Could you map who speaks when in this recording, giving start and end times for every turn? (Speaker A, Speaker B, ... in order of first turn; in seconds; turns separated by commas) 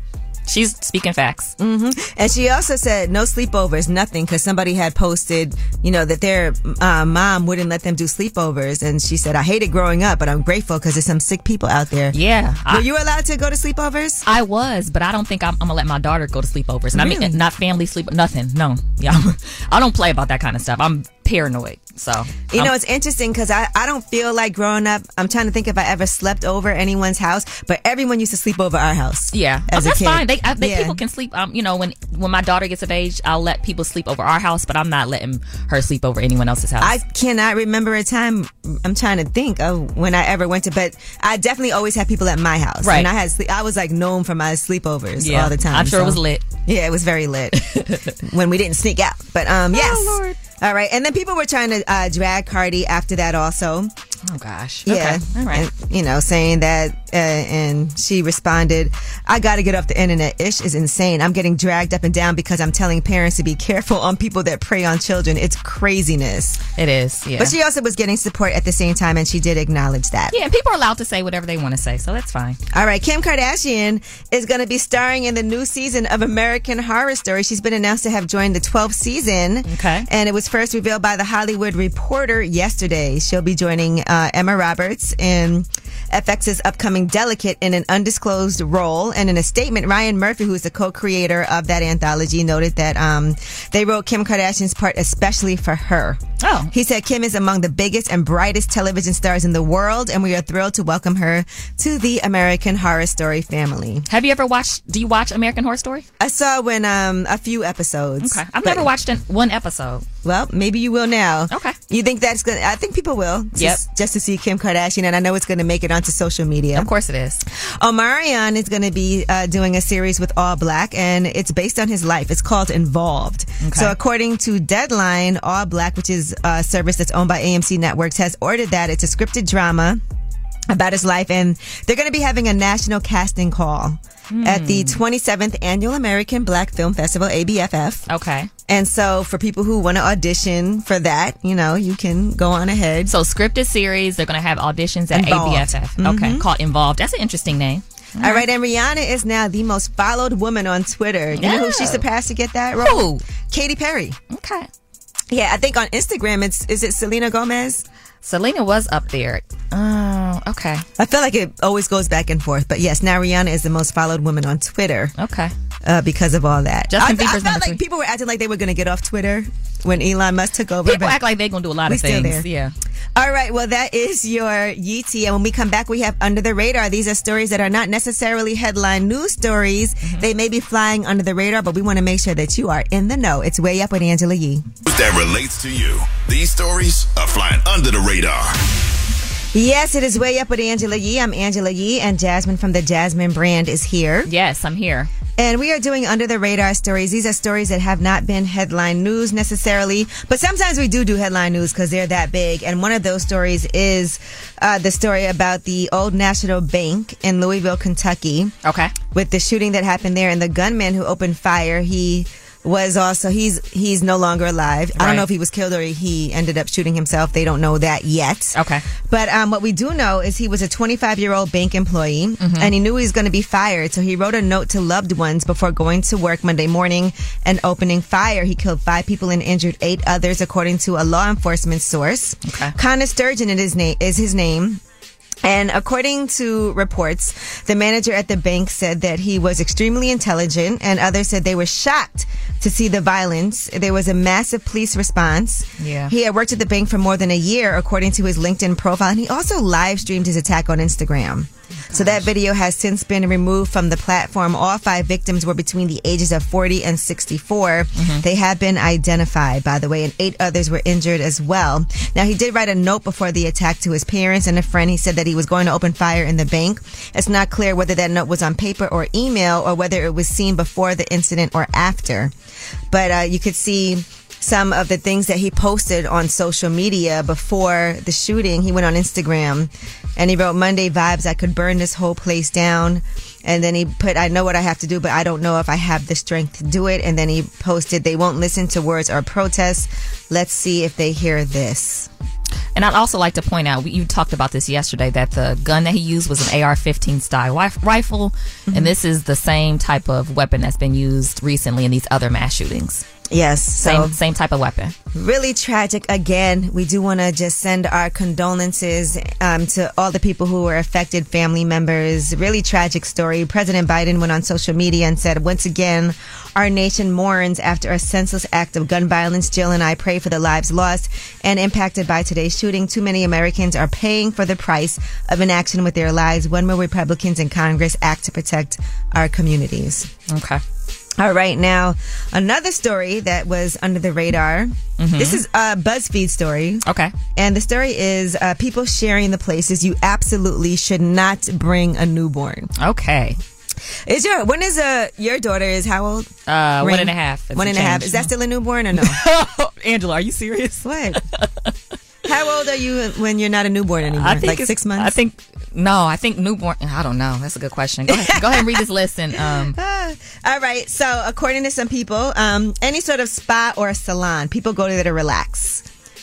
Speaker A: 0.5-1.5, Speaker B: 1.6-12.2, Speaker A: 12.1-12.9, Speaker B: 12.7-14.2, Speaker A: 14.3-22.7, Speaker B: 16.9-17.4, Speaker B: 22.5-31.0, Speaker A: 29.3-36.9, Speaker B: 36.8-47.7, Speaker A: 42.8-43.1, Speaker A: 45.2-46.4, Speaker A: 47.6-48.1, Speaker B: 48.2-53.9, Speaker A: 49.7-50.4, Speaker A: 54.3-55.7, Speaker B: 54.9-66.6, Speaker A: 66.8-67.5, Speaker B: 67.4-70.3, Speaker A: 70.3-72.6, Speaker B: 72.7-104.1, Speaker A: 79.7-80.1, Speaker A: 96.4-96.7, Speaker A: 104.1-106.0, Speaker B: 106.2-108.9, Speaker A: 108.2-110.0, Speaker B: 110.2-116.9, Speaker A: 111.5-111.8, Speaker A: 113.6-113.8, Speaker A: 116.7-117.4, Speaker B: 117.5-130.0, Speaker A: 123.6-124.0, Speaker B: 130.7-138.1, Speaker A: 134.3-135.0, Speaker A: 138.1-138.5, Speaker B: 138.7-143.1, Speaker A: 143.1-148.5, Speaker B: 145.1-146.4, Speaker B: 148.2-154.2, Speaker A: 151.3-152.1, Speaker A: 152.8-153.2, Speaker A: 154.3-154.7, Speaker B: 155.3-157.8, Speaker A: 158.2-160.8, Speaker B: 161.0-165.1, Speaker A: 165.2-165.5, Speaker B: 165.8-171.2, Speaker A: 166.9-167.8, Speaker A: 170.8-172.7, Speaker B: 171.9-172.5, Speaker B: 173.2-184.7, Speaker C: 184.9-188.6, Speaker B: 189.5-194.3, Speaker A: 194.2-195.1, Speaker B: 195.4-208.6, Speaker A: 208.6-208.9, Speaker B: 209.1-234.8, Speaker A: 214.9-215.3, Speaker A: 218.5-218.8, Speaker A: 222.4-222.7, Speaker A: 232.4-232.7, Speaker B: 235.4-272.3, Speaker A: 245.8-246.1, Speaker A: 251.9-252.3, Speaker A: 258.0-258.2, Speaker B: 272.9-292.1, Speaker A: 292.8-303.1, Speaker B: 303.3-304.1, Speaker A: 303.8-304.9, Speaker B: 305.1-330.1, Speaker A: 330.3-330.6, Speaker B: 331.2-336.8, Speaker A: 335.0-335.4, Speaker A: 336.9-337.1, Speaker B: 337.4-342.7, Speaker A: 342.8-343.4, Speaker B: 344.1-349.2, Speaker A: 346.5-348.3, Speaker A: 348.9-351.7, Speaker B: 350.8-351.2, Speaker B: 352.3-355.1, Speaker A: 354.1-359.8, Speaker B: 358.1-358.8, Speaker B: 359.7-365.9